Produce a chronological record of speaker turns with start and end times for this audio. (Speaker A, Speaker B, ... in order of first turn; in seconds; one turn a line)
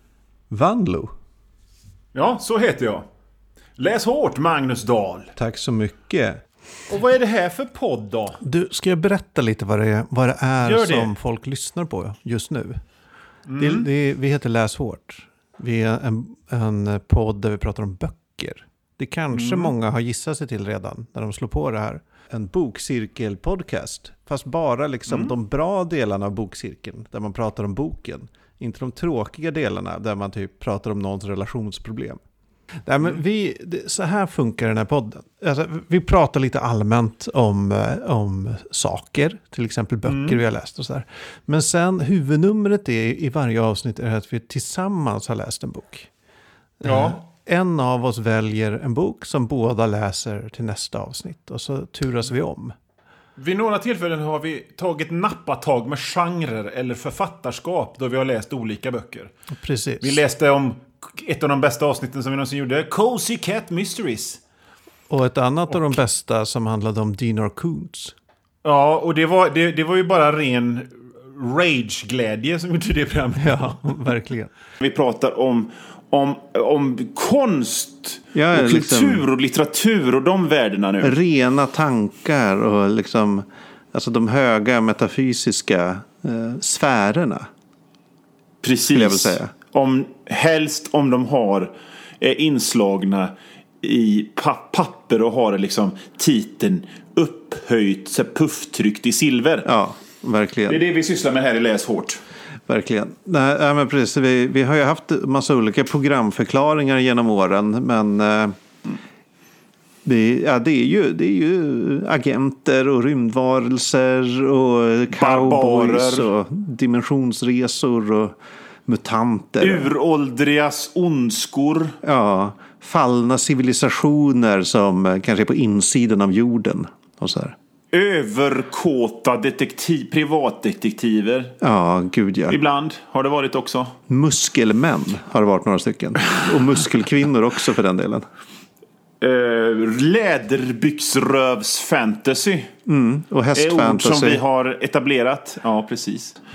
Speaker A: 0.5-1.1
Speaker B: 2.1-3.0
Speaker B: 3.8-5.3
Speaker A: 5.3-6.4
Speaker B: 6.9-8.4
Speaker A: 8.4-12.8
Speaker B: 10.6-11.1
Speaker B: 13.5-13.9
Speaker A: 13.6-32.2
Speaker B: 19.3-19.7
Speaker B: 25.1-25.3
Speaker A: 32.9-46.1
Speaker B: 40.0-40.4
Speaker A: 46.8-52.7
Speaker B: 46.8-47.2
Speaker B: 53.4-59.3
Speaker A: 59.6-60.2
Speaker B: 60.0-64.4
Speaker A: 65.1-68.1
Speaker B: 68.6-74.0
Speaker A: 73.4-74.5
Speaker B: 74.8-81.1
Speaker A: 78.3-79.2
Speaker A: 81.0-87.5
Speaker B: 88.6-99.7
Speaker A: 88.9-89.5
Speaker A: 99.6-100.8
Speaker B: 100.7-102.2
Speaker A: 102.7-108.5
Speaker A: 110.0-119.9
Speaker B: 115.1-116.3
Speaker B: 119.6-122.0
Speaker A: 122.0-127.5
Speaker B: 127.9-131.5
Speaker A: 131.6-132.6
Speaker B: 132.5-133.9
Speaker A: 134.1-138.2
Speaker B: 139.2-142.7
Speaker A: 142.8-144.4
Speaker B: 143.5-146.4